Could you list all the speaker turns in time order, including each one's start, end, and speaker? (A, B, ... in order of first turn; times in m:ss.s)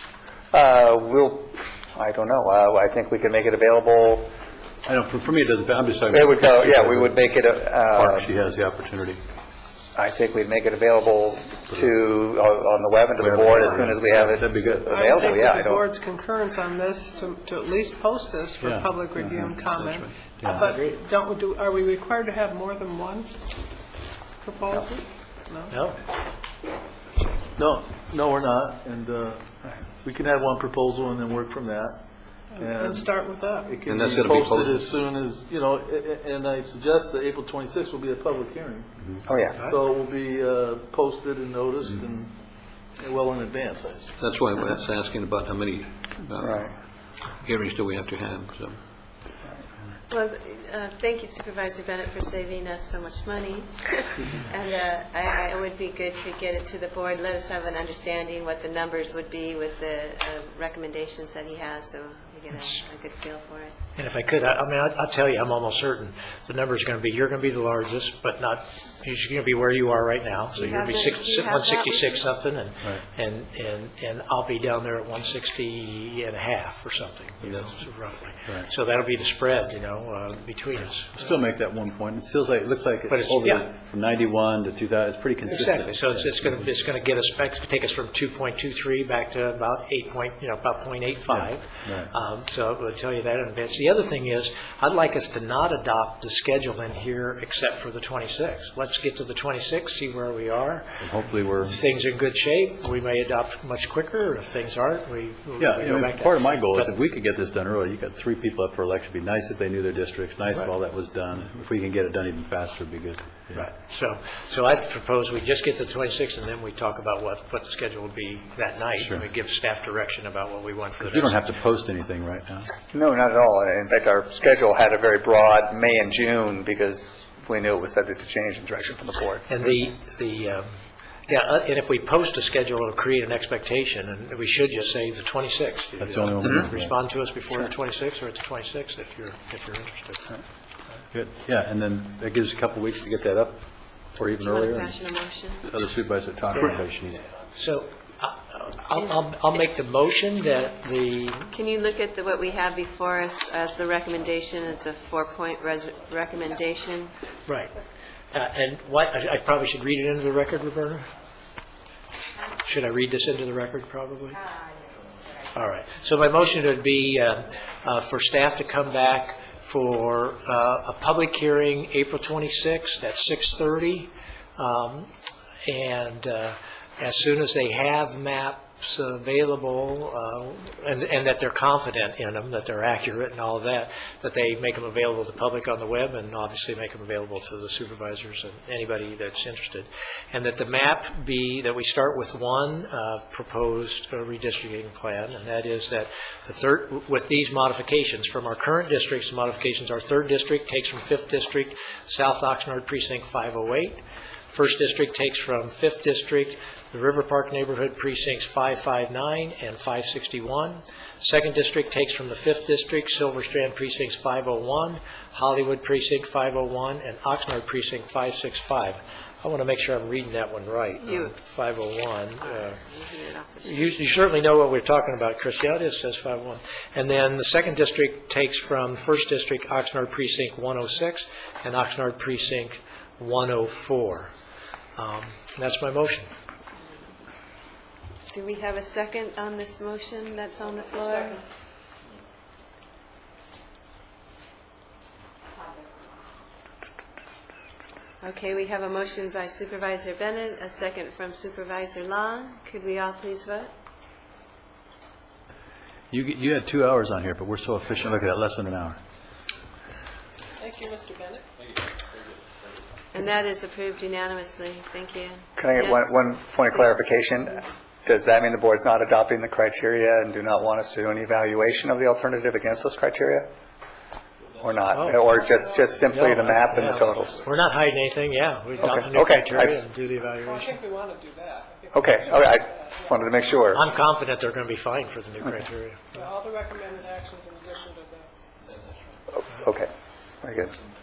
0:00.5-0:04.3 A
0:04.8-0:09.2 B
0:06.1-0:08.3 A
0:09.9-0:15.8 A
0:13.2-0:14.9 B
0:14.8-0:23.3 C
0:18.6-0:19.6 B
0:19.7-0:20.2 D
0:20.4-0:20.7 B
0:20.6-0:20.9 E
0:24.4-0:25.8 C
0:25.7-0:26.0 E
0:27.5-0:44.1 F
0:32.5-0:33.8 C
0:33.8-0:34.9 D
0:39.2-0:39.7 A
0:44.2-0:46.7 D
0:46.4-0:46.7 A
0:47.3-0:48.8 D
0:50.1-1:03.7 G
1:04.0-1:21.3 E
1:10.5-1:12.2 G
1:17.4-1:17.7 D
1:21.1-1:26.7 B
1:23.1-1:23.7 E
1:25.5-1:41.0 E
1:31.3-1:32.1 B
1:41.0-1:41.8 B
1:41.6-1:46.9 E
1:45.6-1:53.7 B
1:53.5-2:01.4 E
1:59.0-1:59.2 B
2:01.0-2:02.7 B
2:02.9-2:09.4 A
2:09.4-2:10.7 E
2:11.3-2:20.4 E
2:16.0-2:16.9 B
2:21.1-2:25.0 B
2:24.4-2:25.7 G
2:25.6-2:27.2 B
2:27.5-2:31.5 E
2:31.5-2:37.1 G
2:37.4-2:37.7 E
2:38.3-2:41.1 E
2:42.6-2:44.4 E
2:45.5-2:55.1 E
2:55.6-3:42.8 E
3:41.0-3:41.4 G
3:42.4-3:44.0 G
3:43.6-3:54.3 E
3:55.0-3:56.3 E
3:58.3-4:01.4 G
4:08.2-4:13.7 G
4:16.1-4:19.0 B
4:20.6-4:21.4 C
4:23.1-4:27.0 G
4:25.6-4:33.5 A
4:34.6-4:37.4 A
4:34.9-4:35.2 E
4:35.3-4:35.9 C
4:36.0-4:40.8 E
4:38.8-4:39.8 A
4:40.4-4:43.6 C
4:41.9-4:43.8 A
4:43.7-4:46.2 E
4:46.1-4:48.3 C
4:49.3-4:50.7 A